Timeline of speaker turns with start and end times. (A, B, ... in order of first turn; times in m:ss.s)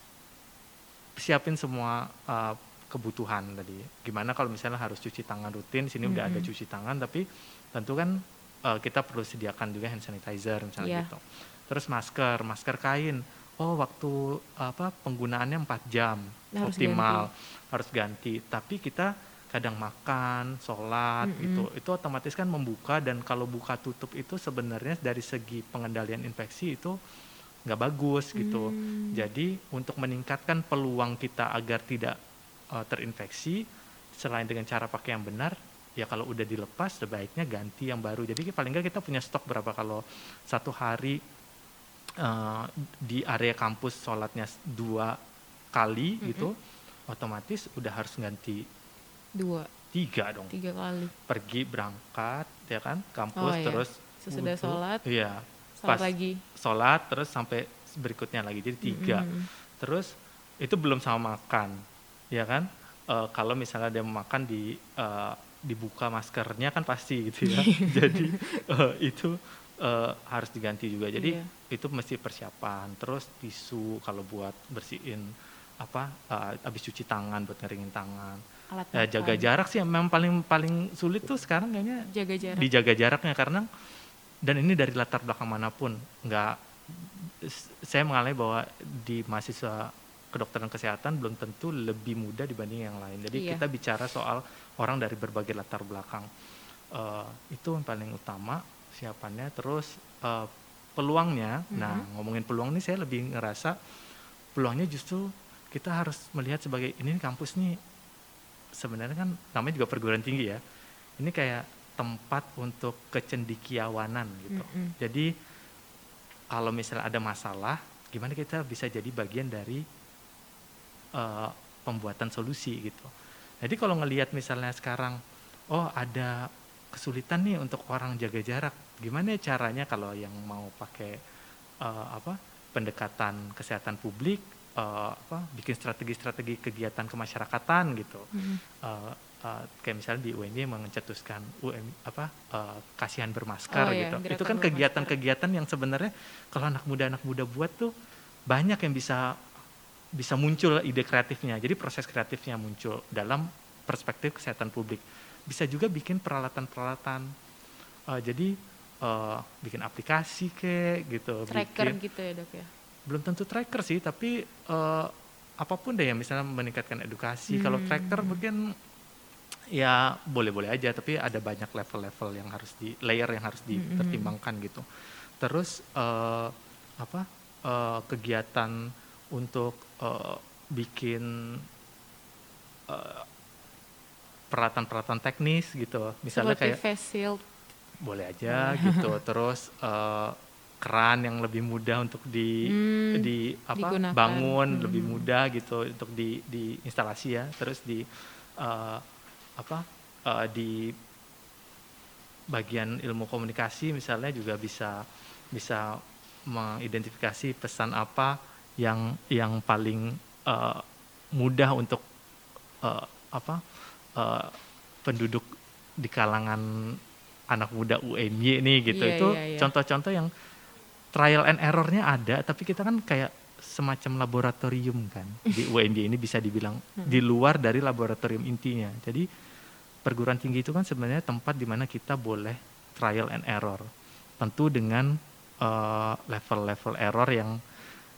0:01.2-0:27.0 A
0:06.0-0:06.5 B
0:10.8-0:11.1 B
0:16.5-0:17.3 B
0:21.2-0:21.7 B
0:27.6-0:32.2 A
0:28.3-0:29.2 B
0:32.7-0:33.6 A
0:34.1-0:41.2 A
0:42.2-0:45.2 A
0:45.7-0:46.6 A
0:46.2-0:46.5 B
0:47.1-0:48.7 A
0:49.4-0:49.7 B
0:49.9-0:50.5 A
0:50.5-0:51.1 B
0:51.2-1:18.4 A
0:53.4-0:55.0 B
0:55.8-0:56.4 B
0:58.8-0:59.5 B
1:07.4-1:08.6 B
1:11.2-1:11.5 B
1:18.7-1:19.5 B
1:18.9-1:23.6 A
1:22.1-1:22.7 B
1:24.4-1:36.3 A
1:33.3-1:33.6 B
1:36.9-1:43.8 A
1:41.7-1:42.1 B
1:44.5-1:47.8 A
1:48.7-1:50.6 A
1:51.2-1:55.3 A
1:54.5-1:54.9 B
1:56.5-1:59.8 A
2:01.1-2:03.1 A
2:03.6-2:05.2 A
2:05.7-2:11.2 A
2:11.8-2:27.9 A
2:18.3-2:18.6 B
2:23.7-2:25.1 B
2:28.5-2:29.4 A
2:30.1-2:37.3 A
2:38.1-2:42.0 A
2:41.5-2:42.7 B
2:43.1-2:48.7 A
2:47.5-2:48.4 B
2:49.7-2:54.8 A
2:53.7-2:54.3 B
2:55.4-3:01.6 A
3:02.9-3:03.3 A
3:04.5-3:06.8 A
3:06.3-3:07.4 B
3:08.0-3:18.1 A
3:08.5-3:09.1 B
3:12.6-3:15.3 B
3:18.6-3:19.0 A
3:19.6-3:20.9 A
3:22.5-3:25.0 A
3:25.5-3:30.8 A
3:31.3-3:32.0 A
3:32.8-3:33.6 A
3:34.2-3:35.5 A
3:36.0-3:37.0 A
3:37.5-3:40.3 A
3:38.9-3:39.7 B
3:41.1-3:49.2 A
3:50.0-3:53.9 A
3:54.4-3:57.6 A